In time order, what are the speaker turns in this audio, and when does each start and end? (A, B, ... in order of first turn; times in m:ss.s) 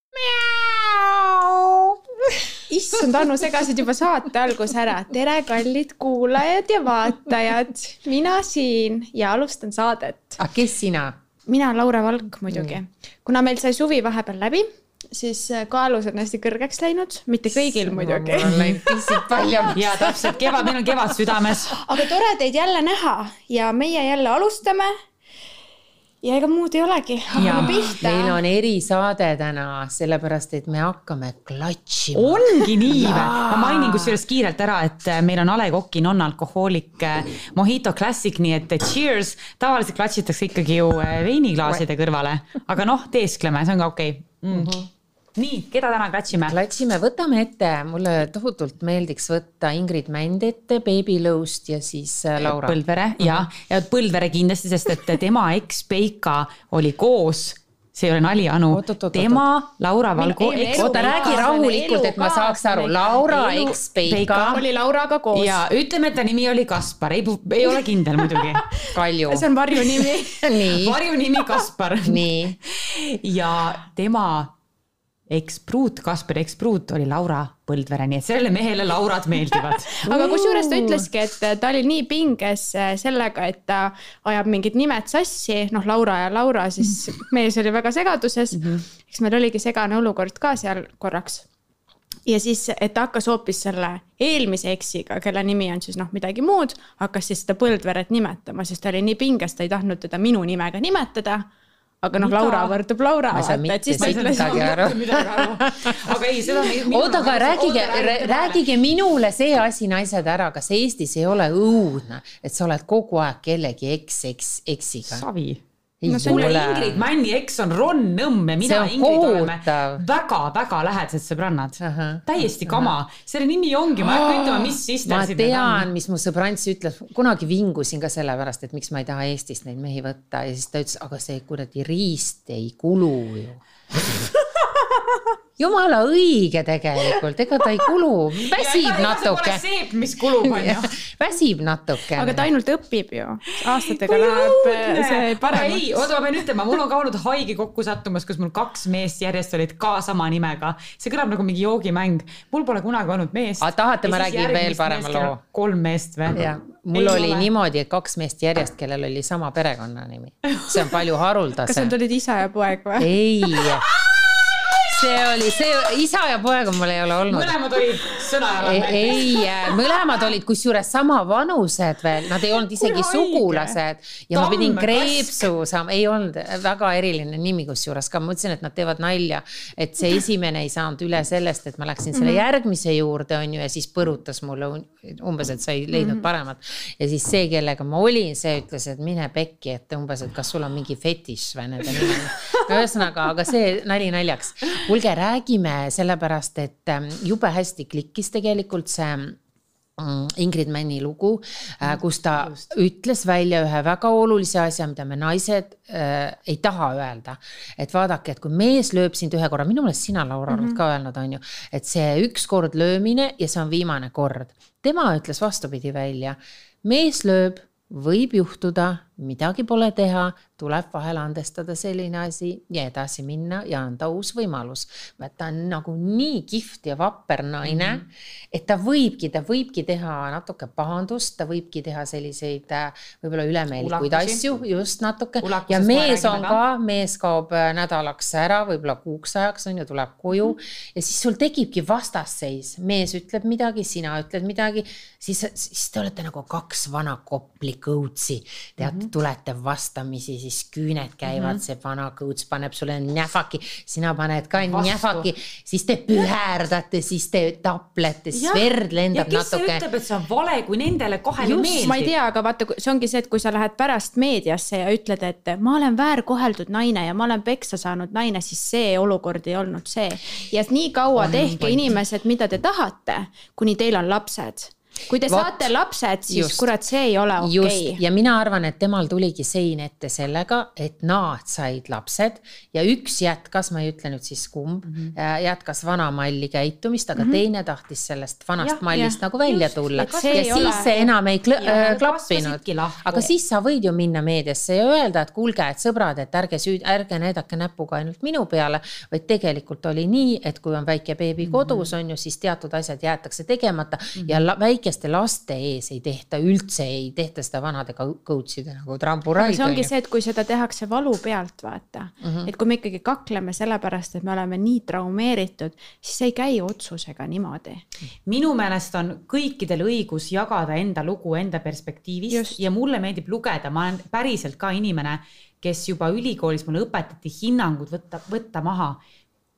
0:00.1-0:02.4 A
0:02.7-0:10.4 B
0:10.4-0:11.2 A
0:11.4-0:20.7 B
0:12.5-0:12.8 A
0:17.6-0:19.9 A
0:18.5-0:18.7 C
0:19.7-0:21.8 C
0:21.5-0:24.9 B
0:26.2-0:28.4 B
0:27.4-0:34.2 A
0:27.4-0:27.8 C
0:32.1-0:44.8 C
0:44.5-0:44.9 A
0:45.4-0:46.6 C
0:46.3-0:53.5 A
0:52.4-1:01.4 C
0:58.7-0:59.4 A
1:00.2-1:03.8 B
1:00.7-1:04.6 A
1:04.1-1:04.6 C
1:04.4-1:05.6 B
1:05.3-1:08.6 C
1:08.2-1:10.4 B
1:08.9-1:11.0 A
1:10.7-1:14.5 C
1:12.0-1:12.6 A
1:15.3-1:20.0 C
1:19.8-1:31.4 B
1:20.0-1:21.1 A
1:28.5-1:28.8 C
1:32.2-1:41.5 B
1:42.0-1:44.8 B
1:42.2-1:42.7 C
1:43.3-1:55.3 A
1:44.0-1:48.6 C
1:55.1-1:55.6 C
1:56.0-1:57.1 A
1:56.0-1:56.6 B
1:56.2-2:05.9 C
1:58.6-2:00.0 A
2:01.8-2:03.0 A
2:04.0-2:14.2 A
2:15.6-2:19.6 A
2:18.4-2:21.0 C
2:20.2-2:22.5 A
2:22.1-2:26.1 B
2:23.9-2:36.4 C
2:33.6-2:35.4 A
2:36.3-2:41.9 A
2:36.9-2:37.5 C
2:40.5-2:40.8 C
2:41.6-2:43.2 B
2:43.0-2:43.9 A
2:44.0-2:44.9 C
2:44.8-2:47.6 A
2:47.3-2:49.7 C
2:48.6-3:19.4 A
2:52.7-2:53.8 C
2:54.3-2:55.5 C
3:02.1-3:02.4 B
3:05.9-3:06.2 B
3:20.0-4:19.8 A
3:21.8-3:22.7 C
3:30.5-3:30.8 B
3:47.6-3:48.0 C
3:53.8-3:54.4 C
3:55.4-3:56.6 C
4:08.8-4:09.1 C
4:11.3-4:11.6 C
4:14.6-4:15.3 C
4:18.3-4:22.1 C
4:21.4-4:21.9 A
4:21.7-4:38.0 B
4:31.1-4:32.0 C
4:35.2-4:35.7 A
4:36.3-4:36.7 A
4:37.4-5:09.9 A
4:44.8-4:45.1 C
4:48.9-4:51.1 B
4:50.0-4:50.9 C
4:51.6-4:53.3 C
5:01.4-5:01.9 C
5:04.2-5:04.4 C
5:09.4-5:17.8 B
5:12.2-5:12.5 A
5:18.2-5:29.0 C
5:22.3-5:22.6 B